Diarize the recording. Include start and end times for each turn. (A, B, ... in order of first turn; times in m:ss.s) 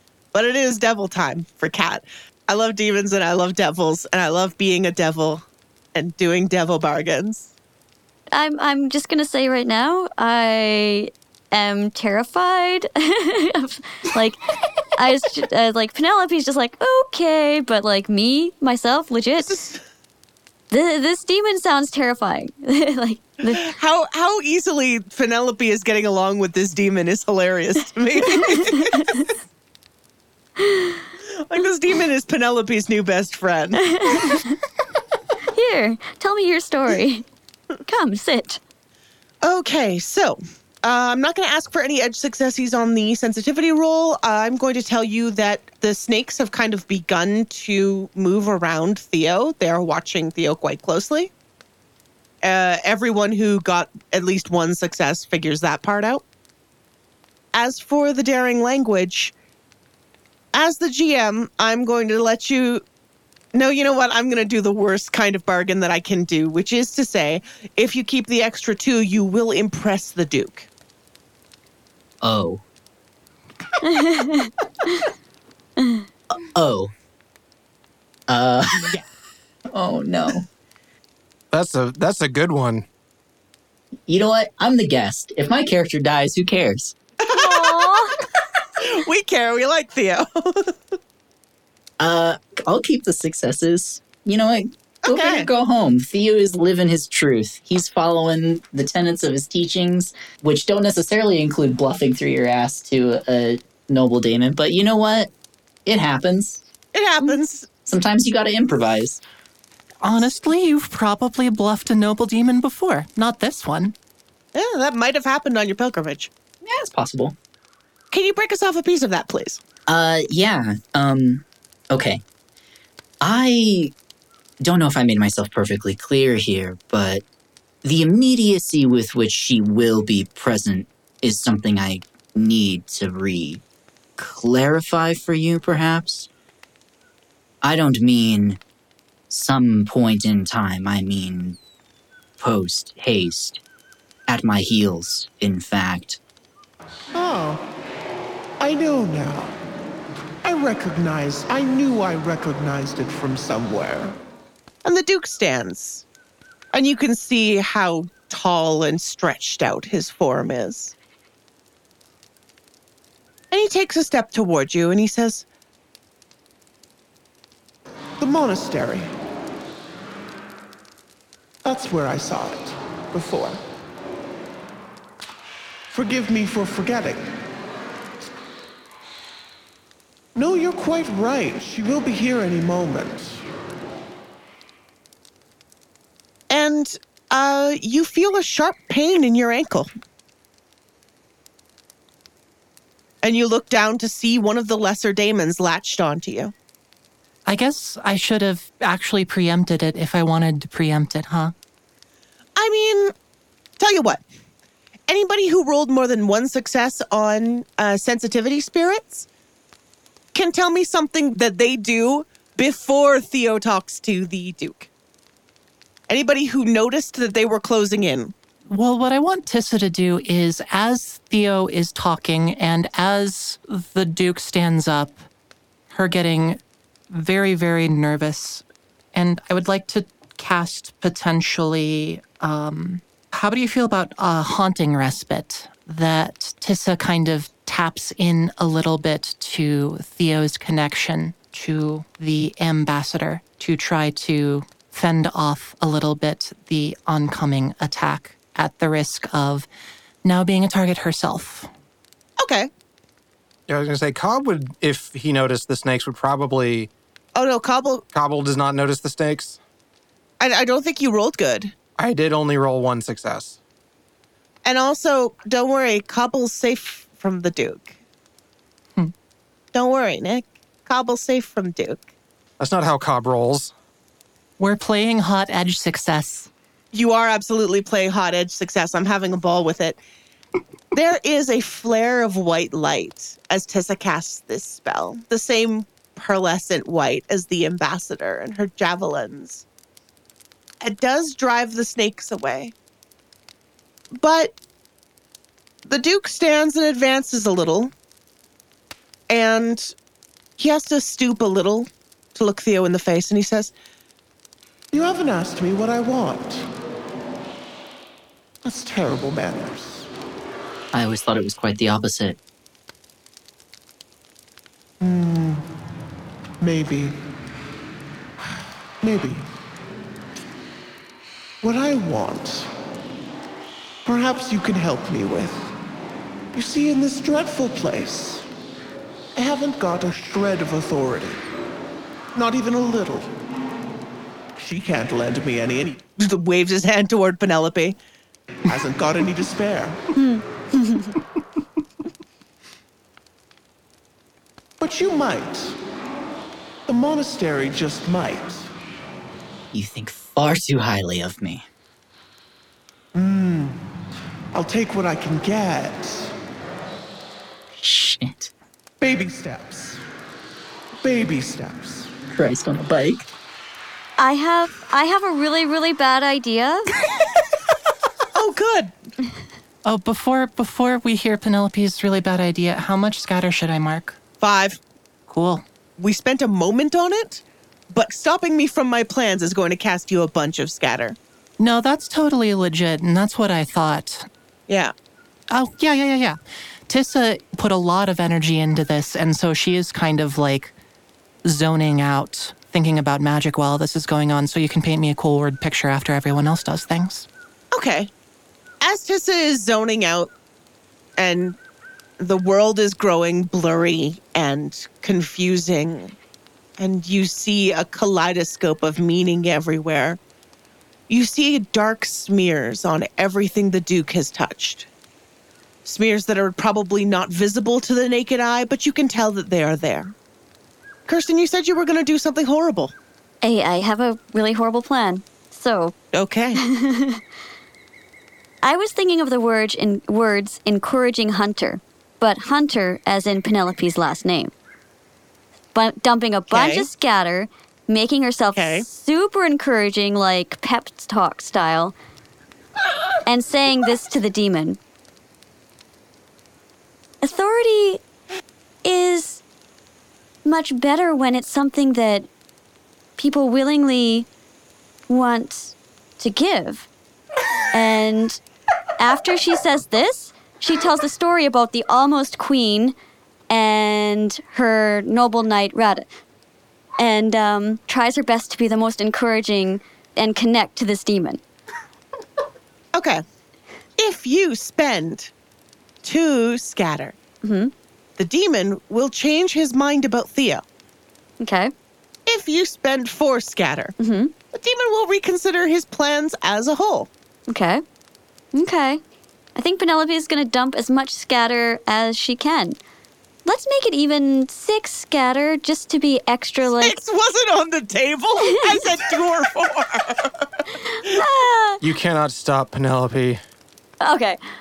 0:00.3-0:05.4 A
0:06.0-0:07.5 A
0:08.3-0:19.6 B
0:19.4-0:19.8 A
0:20.7-0:23.6 B
0:23.6-0:28.9 A
0:28.3-0:29.3 B
0:30.6-0:31.0 B
0:31.4-0:33.8 A
0:33.9-0:34.6 B
0:35.5-0:37.2 B
0:37.9-0:38.6 B
0:39.4-0:51.3 A
0:52.4-0:56.2 A
0:57.5-0:59.3 A
1:00.5-1:02.8 A
1:03.5-1:10.7 A
1:12.2-1:12.6 C
1:13.8-1:15.1 B
1:15.8-1:16.0 B
1:16.4-1:16.9 C
1:18.3-1:19.0 C
1:19.7-1:20.5 C
1:21.5-1:22.9 D
1:24.1-1:27.0 C
1:27.2-1:28.0 A
1:27.3-1:28.1 B
1:28.8-1:30.7 A
1:32.0-1:45.3 C
1:35.0-1:35.5 A
1:45.9-1:46.6 C
1:46.9-1:47.7 A
1:47.9-1:49.2 C
1:50.0-1:54.0 E
1:54.6-1:56.3 A
1:56.6-1:57.4 C
1:58.1-1:59.6 A
1:59.9-2:02.2 C
2:03.2-2:04.0 C
2:04.6-2:07.2 C
2:07.8-2:13.6 C
2:14.2-2:16.3 C
2:17.6-2:18.6 C
2:19.3-2:21.6 C
2:22.4-2:23.6 C
2:24.3-2:26.2 C
2:27.1-2:27.6 F
2:28.6-2:29.6 F
2:30.4-2:34.2 F
2:34.8-2:36.1 A
2:36.7-2:41.0 A
2:43.5-2:45.4 A
2:48.2-2:49.1 F
2:51.6-2:53.6 F
2:55.9-2:57.3 F
3:00.4-3:03.4 F
3:06.5-3:09.9 A
3:13.2-3:16.5 A
3:17.5-3:21.5 E
3:22.6-3:23.1 A
3:23.8-3:24.2 A
3:25.1-3:29.3 A
3:30.3-3:34.9 A
3:36.1-3:38.3 A
3:38.7-3:45.2 E
3:45.9-4:09.7 E
4:10.2-4:11.7 E
4:12.4-4:12.7 A
4:13.7-4:16.9 D
4:17.4-4:18.0 A
4:18.1-4:19.6 D
4:20.4-4:21.7 A
4:22.0-4:23.6 D
4:24.6-4:27.9 A
4:29.7-4:32.1 A
4:32.6-4:33.7 D
4:34.6-4:36.5 E
4:36.9-4:40.0 A
4:40.9-4:49.6 A
4:50.8-4:52.7 A
4:54.2-4:54.5 A
4:55.9-4:57.9 A
4:59.3-4:59.9 A
5:00.6-5:03.7 A
5:04.9-5:06.7 F
5:08.6-5:10.1 F
5:10.9-5:12.4 C
5:15.0-5:15.7 F
5:16.6-5:17.2 F
5:19.0-5:19.5 F
5:21.6-5:22.7 F
5:24.0-5:25.7 F
5:26.5-5:28.5 F
5:29.4-5:31.4 F
5:32.4-5:33.3 F
5:34.6-5:36.0 F
5:36.2-5:38.0 A
5:38.7-5:40.0 F
5:40.2-5:41.2 B
5:44.8-5:45.8 F
5:46.9-5:48.7 F
5:49.7-5:51.7 C
5:53.1-5:53.8 F
5:54.5-5:56.3 F
5:57.8-5:58.5 C
5:59.0-6:00.0 F
6:01.0-6:02.1 F
6:02.3-6:03.3 C
6:04.2-6:06.9 B
6:08.4-6:08.9 A
6:09.9-6:14.2 E
6:14.4-6:14.8 A
6:15.3-6:15.6 E
6:16.0-6:21.2 A
6:21.6-6:24.3 E
6:25.5-6:30.8 E
6:31.4-6:37.3 E
6:37.7-6:38.1 A
6:38.8-6:40.3 A
6:41.2-6:41.6 A
6:42.2-6:46.2 A
6:46.8-6:50.2 A
6:51.1-6:54.9 A
6:55.8-7:00.2 A
7:01.1-7:02.9 A
7:03.4-7:06.0 B
7:06.1-7:06.6 A
7:06.6-7:07.2 B
7:08.6-7:14.5 B
7:15.7-7:22.0 B
7:16.5-7:16.9 A
7:18.6-7:18.8 A
7:23.3-7:24.8 B
7:27.2-7:28.0 B
7:28.8-7:29.4 B
7:30.4-7:32.3 B
7:33.2-7:34.3 B
7:35.1-7:36.9 B
7:37.7-7:38.4 B
7:39.0-7:42.9 B
7:43.5-7:46.1 B
7:47.0-7:51.4 B
7:53.0-7:53.2 A
7:54.0-7:55.3 A
7:56.0-7:57.2 A
7:57.4-7:57.7 B
7:58.2-8:00.6 A
8:01.4-8:01.7 B
8:02.3-8:04.0 A
8:04.0-8:04.3 B
8:04.5-8:07.1 A
8:07.5-8:07.8 B
8:08.5-8:09.0 B
8:09.6-8:12.8 B
8:13.4-8:17.0 B
8:16.8-8:20.4 A
8:21.0-8:21.8 B
8:21.8-8:23.4 D
8:24.0-8:24.4 B